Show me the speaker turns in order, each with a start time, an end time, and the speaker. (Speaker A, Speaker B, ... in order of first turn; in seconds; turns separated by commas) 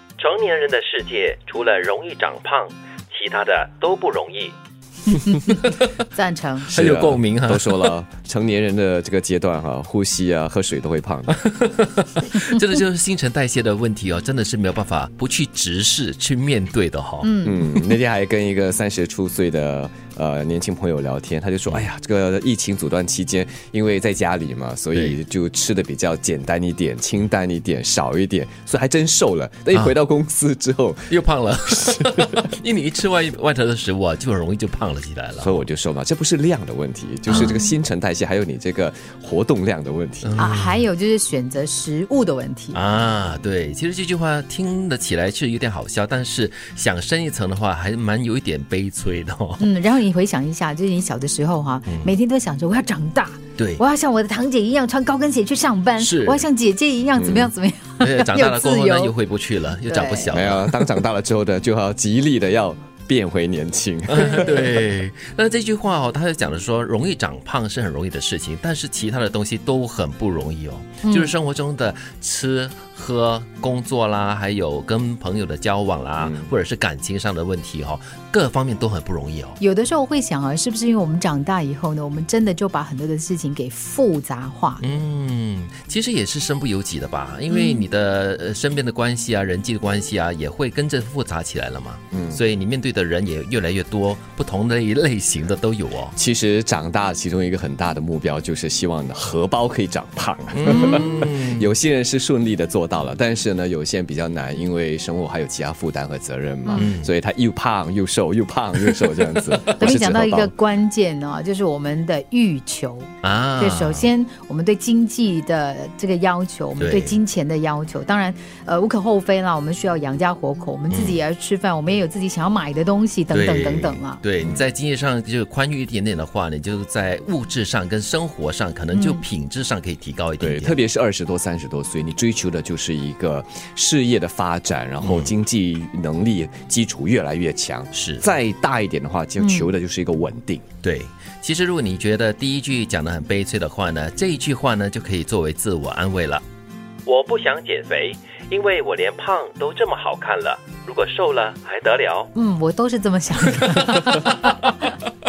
Speaker A: 0.2-4.5, Speaker B: 1.2-2.5, Speaker B: 5.2-5.9, Speaker C: 6.1-6.7, Speaker D: 6.7-11.3, Speaker B: 6.7-7.9, Speaker B: 11.3-17.3, Speaker C: 17.2-17.7, Speaker D: 17.4-32.4, Speaker B: 31.1-35.6, Speaker D: 35.4-40.4, Speaker B: 37.3-37.6, Speaker C: 37.3-37.7, Speaker B: 40.2-40.8, Speaker C: 40.4-42.8, Speaker B: 42.7-49.6, Speaker C: 49.6-59.1, Speaker B: 51.9-52.1, Speaker B: 53.6-53.8, Speaker B: 56.0-56.4, Speaker D: 57.2-57.5, Speaker B: 58.0-60.9, Speaker C: 59.9-60.3, Speaker D: 60.3-64.7, Speaker B: 64.1-79.6, Speaker C: 71.0-71.3, Speaker D: 76.2-76.5, Speaker C: 79.6-84.8, Speaker B: 84.8-96.1, Speaker C: 87.5-87.8, Speaker D: 92.1-92.4, Speaker D: 96.2-110.5, Speaker B: 100.5-101.7, Speaker C: 100.7-101.0, Speaker B: 106.7-107.1, Speaker C: 109.8-124.2, Speaker B: 113.2-114.1, Speaker B: 116.8-117.2, Speaker B: 120.9-121.2, Speaker B: 123.3-130.8, Speaker D: 124.4-124.6, Speaker C: 128.9-129.2, Speaker D: 130.4-140.7, Speaker B: 135.0-135.3, Speaker B: 137.9-138.2, Speaker C: 139.4-139.7, Speaker B: 140.8-146.4, Speaker A: 147.1-152.3, Speaker C: 152.3-154.5, Speaker B: 153.4-154.9